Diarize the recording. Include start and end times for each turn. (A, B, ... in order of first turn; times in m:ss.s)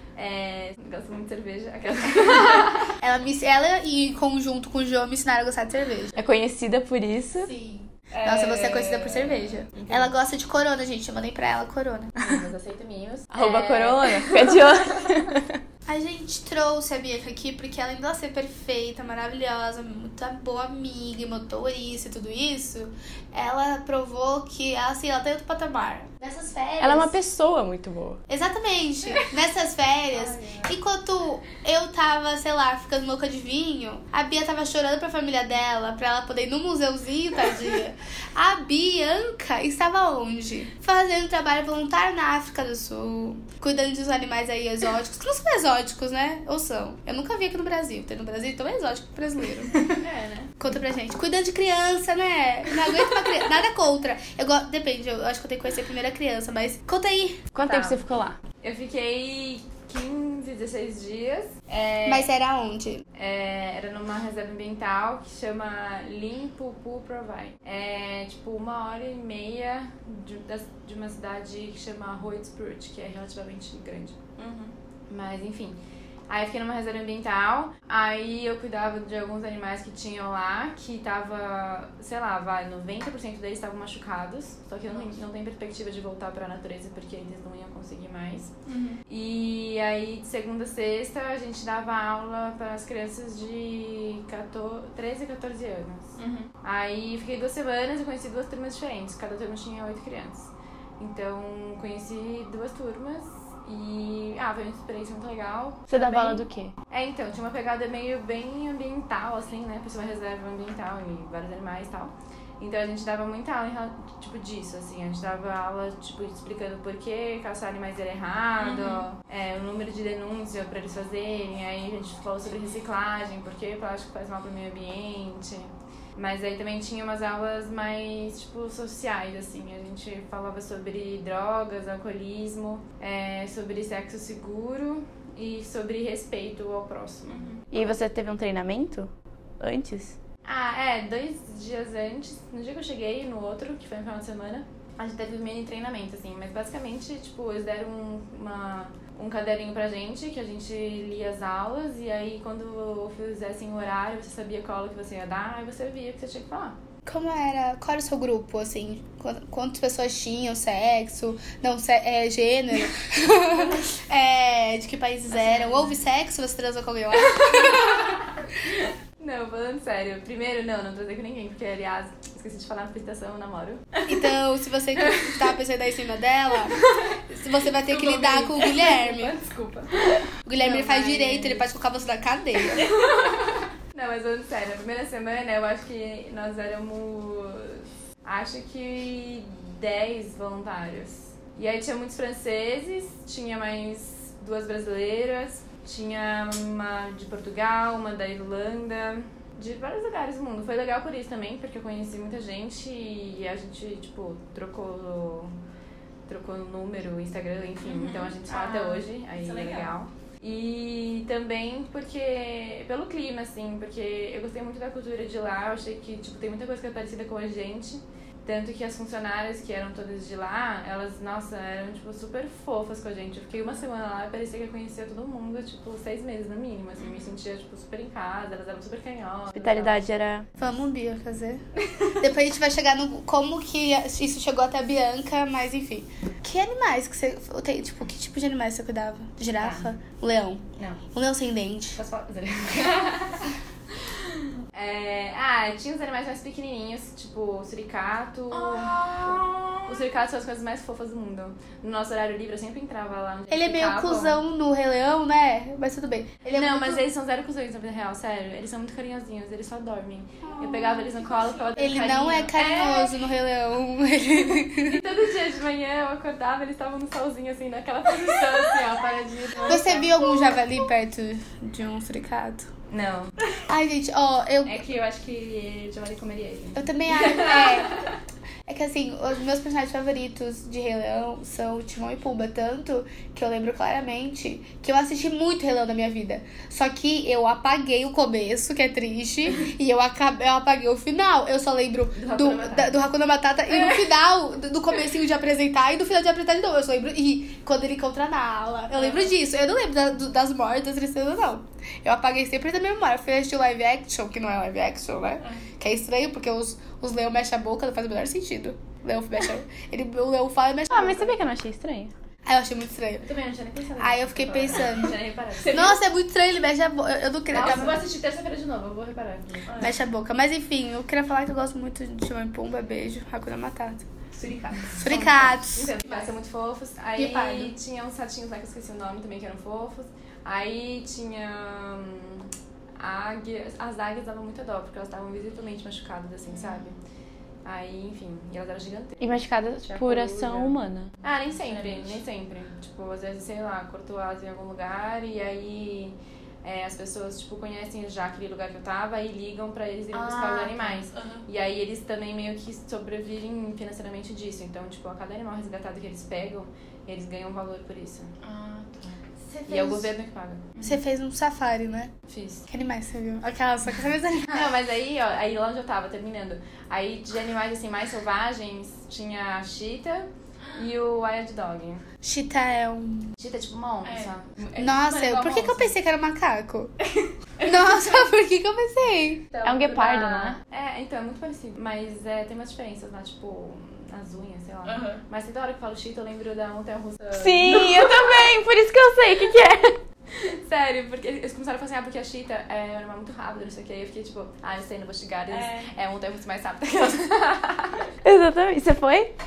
0:00.2-0:02.9 A
0:03.0-0:06.1 B
0:06.1-0:07.5 C
0:07.4-0:12.1 B
0:08.1-0:10.1 A
0:12.2-0:15.3 A
0:13.3-0:15.4 C
0:15.9-0:27.1 B
0:26.8-0:28.2 C
0:28.3-0:49.8 B
0:30.1-0:30.7 A
0:49.7-0:50.5 A
0:50.6-0:57.4 B
0:57.5-0:58.4 C
0:57.6-0:58.0 A
0:58.6-1:02.3 A
1:02.0-1:03.0 B
1:03.1-1:14.2 A
1:14.4-1:14.7 C
1:15.1-1:15.8 A
1:16.3-1:28.6 A
1:28.7-1:29.0 C
1:29.1-2:17.5 A
1:36.2-1:36.5 C
1:45.9-1:46.7 C
1:58.6-1:59.0 C
2:17.7-2:20.2 C
2:20.4-2:36.8 A
2:37.0-2:48.1 B
2:45.4-2:45.9 A
2:47.4-2:48.3 A
2:49.2-2:53.9 A
2:54.0-2:59.3 B
2:57.9-3:00.0 A
3:00.4-3:02.8 B
3:00.6-3:01.6 A
3:02.8-3:25.5 A
3:26.3-3:50.0 A
3:27.8-3:29.9 C
3:49.5-3:50.5 C
3:50.6-3:51.6 B
3:52.2-4:02.0 B
3:59.6-3:59.8 A
4:02.0-4:14.4 A
4:08.7-4:09.7 C
4:13.5-4:17.0 B
4:16.5-4:23.2 A
4:21.8-4:24.9 B
4:24.7-4:30.6 A
4:29.6-4:32.7 B
4:32.9-4:33.3 A
4:33.6-4:34.8 B
4:34.6-4:38.1 A
4:36.8-4:37.9 B
4:38.7-5:11.4 B
4:52.1-4:53.0 A
5:10.9-5:12.1 A
5:12.4-5:13.2 B
5:13.2-5:15.9 A
5:14.0-5:18.0 B
5:17.5-5:19.8 A
5:19.8-5:24.0 B
5:24.3-5:25.5 C
5:24.9-5:26.2 B
5:25.1-5:37.0 A
5:27.2-5:27.7 B
5:37.6-5:58.3 A
5:39.2-5:41.1 C
5:50.1-5:51.4 C
5:58.4-6:00.1 C
5:59.7-6:00.9 A
6:00.8-6:02.1 B
6:02.3-6:02.7 A
6:02.7-6:04.7 B
6:04.5-6:12.0 A
6:12.2-6:13.3 B
6:13.4-6:15.9 A
6:14.0-6:15.5 C
6:14.8-6:16.9 B
6:17.6-6:19.5 B
6:17.6-6:18.1 C
6:19.6-6:20.6 C
6:19.6-6:28.5 A
6:24.8-6:25.2 C
6:27.3-6:29.9 C
6:30.3-6:38.1 A
6:35.5-6:35.9 C
6:38.2-6:39.3 C